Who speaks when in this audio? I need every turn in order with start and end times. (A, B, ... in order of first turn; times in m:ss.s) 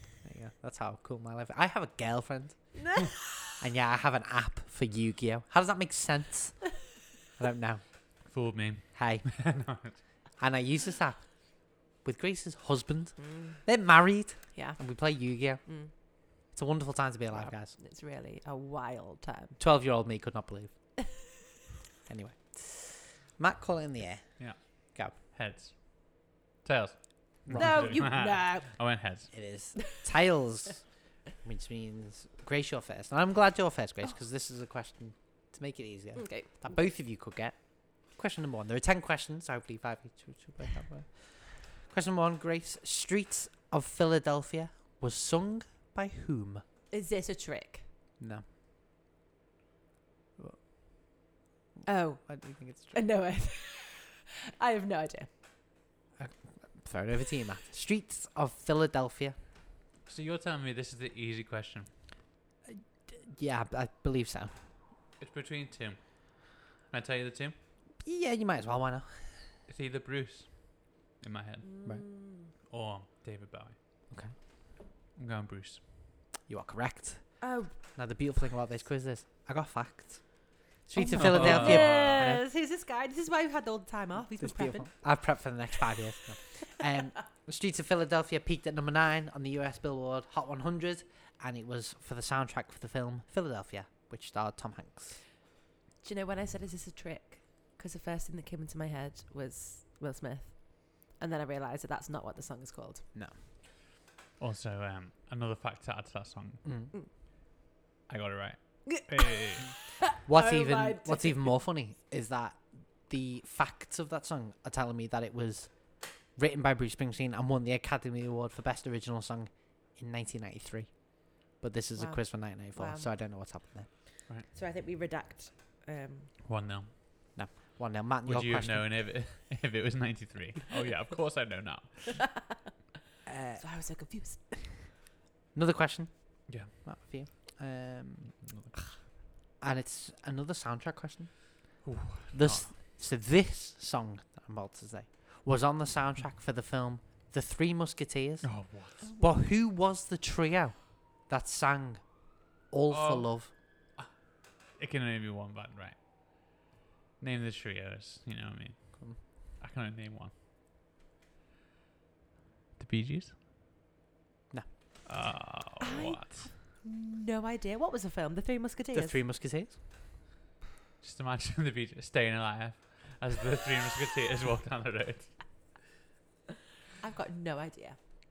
0:00.2-0:02.9 A
0:02.8-0:03.3 B
0:03.5-0:06.7 A
0:07.4-0:07.8 A
0:08.2-0:10.0 C
0:08.9-0:09.4 A
0:10.4-0:15.8 A
0:13.2-0:13.6 B
0:14.5-0:15.9 B
0:16.3-0:17.8 A
0:17.3-0:19.6 B
0:19.6-0:20.7 A
0:22.1-0:25.1 A
0:24.4-0:29.3 C
0:27.5-0:28.2 A
0:27.5-0:28.7 B
0:29.3-0:46.6 A
0:36.2-0:36.7 B
0:46.9-0:47.8 B
0:48.2-0:48.4 A
0:51.8-0:55.3 B
0:52.2-0:53.0 A
0:56.2-0:59.4 A
1:00.0-1:01.9 C
1:02.6-1:04.7 A
1:05.2-1:07.6 C
1:08.0-1:09.5 A
1:09.7-1:11.7 C
1:11.6-1:12.5 B
1:12.6-1:13.8 C
1:15.1-1:15.8 C
1:16.5-1:22.4 A
1:17.4-1:17.7 B
1:21.0-1:25.0 B
1:21.1-1:22.2 C
1:24.3-1:35.2 A
1:36.0-1:43.0 B
1:44.4-1:46.6 C
1:46.6-1:46.9 A
1:48.1-1:49.7 C
1:48.9-1:51.6 B
1:50.2-2:03.9 A
2:02.0-2:03.1 B
2:04.4-2:06.3 B
2:06.4-2:06.9 C
2:07.4-2:09.0 A
2:08.2-2:12.2 C
2:13.2-2:13.6 A
2:13.6-2:14.9 B
2:15.5-2:18.4 A
2:16.5-2:16.7 C
2:18.4-2:18.8 C
2:19.6-2:33.5 A
2:21.8-2:22.7 C
2:28.4-2:29.1 C
2:29.0-2:29.4 B
2:32.9-2:34.1 C
2:34.8-2:36.5 C
2:37.2-2:40.3 C
2:39.0-2:39.2 A
2:42.8-2:43.4 C
2:45.0-2:46.5 C
2:45.8-2:49.2 B
2:48.9-2:49.8 A
2:51.0-2:55.4 C
2:57.0-2:58.0 B